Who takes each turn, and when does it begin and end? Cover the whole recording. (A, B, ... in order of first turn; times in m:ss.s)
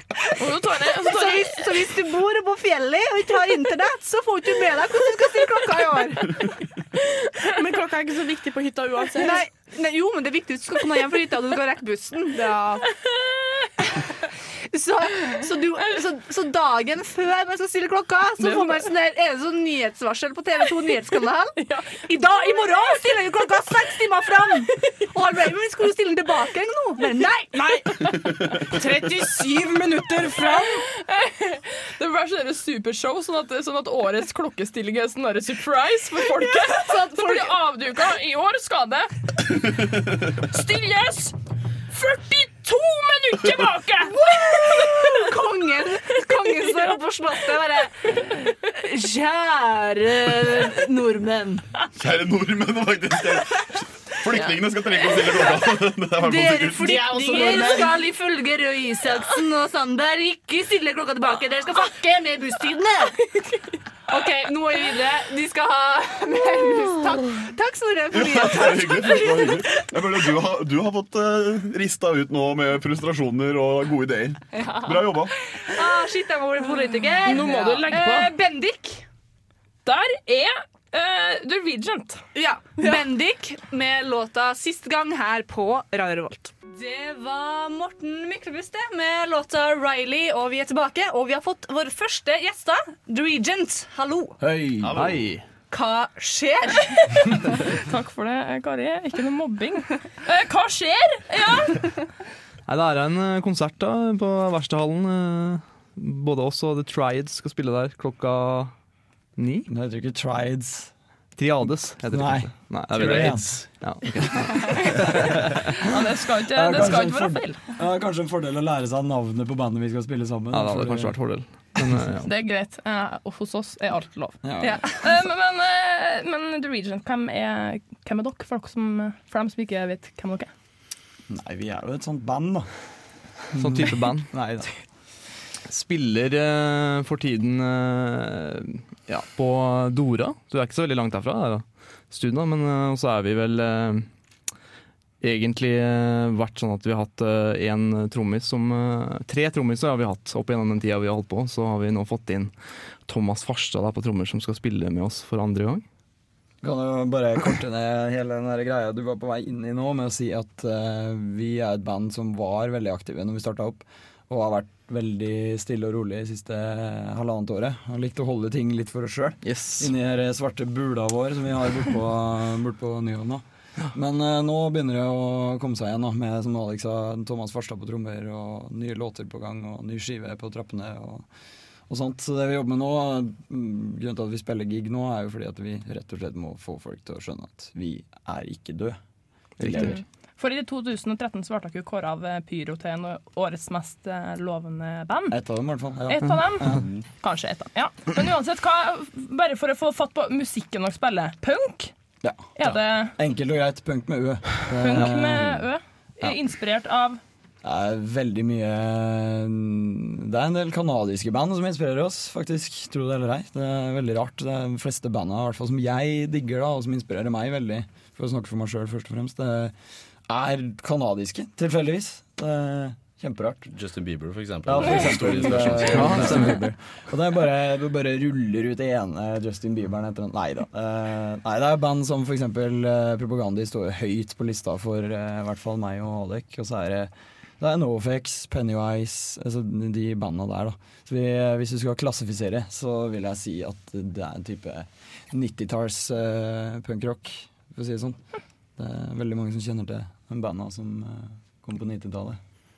0:00.4-0:01.8 A
0:01.0-0:06.4 B
0:07.5-0:09.4 C
0:09.2-0:12.8 B
0:12.4-0:12.8 C
0:14.7-0:28.1 B
0:28.7-0:39.1 A
0:28.8-0:29.4 B
0:30.1-0:30.7 B
0:36.5-0:37.5 B
0:40.4-0:41.3 A
0:41.9-0:45.2 A
0:44.4-0:51.6 B
0:52.0-0:57.1 D
0:56.2-1:03.2 B
0:57.0-0:57.8 A
0:57.1-0:57.8 C
1:04.1-1:09.6 B
1:08.1-1:15.3 D
1:14.5-1:19.0 B
1:17.2-1:18.3 A
1:19.8-1:22.2 A
1:22.3-1:34.4 B
1:34.4-1:35.0 E
1:34.8-1:35.2 F
1:34.9-1:35.4 G
1:35.7-1:36.9 B
1:37.7-1:41.9 A
1:42.7-1:48.7 G
1:49.4-1:49.7 G
1:49.7-1:50.9 E
1:51.4-1:55.5 G
1:52.1-1:53.6 E
1:53.1-1:53.4 F
1:55.8-1:57.6 A
1:56.5-2:01.2 E
2:00.5-2:02.3 G
2:02.2-2:10.5 A
2:04.4-2:04.8 E
2:11.3-2:12.7 E
2:13.5-2:14.7 E
2:13.5-2:14.3 G
2:15.7-2:24.1 G
2:25.2-2:32.5 G
2:33.0-2:35.8 G
2:36.6-2:53.4 E
2:49.4-2:49.9 G
2:53.9-3:01.2 E
3:01.9-3:09.0 E
3:09.6-3:10.0 E
3:09.6-3:10.0 G
3:09.8-3:15.4 A
3:15.3-3:16.9 E
3:16.1-3:21.9 A
3:22.2-3:25.6 E
3:22.6-3:23.1 A
3:24.7-3:27.2 A
3:27.6-3:39.7 E
3:40.3-3:43.7 E
3:43.7-3:46.6 F
3:44.6-4:08.2 E
3:45.9-3:46.7 G
4:08.8-4:12.4 E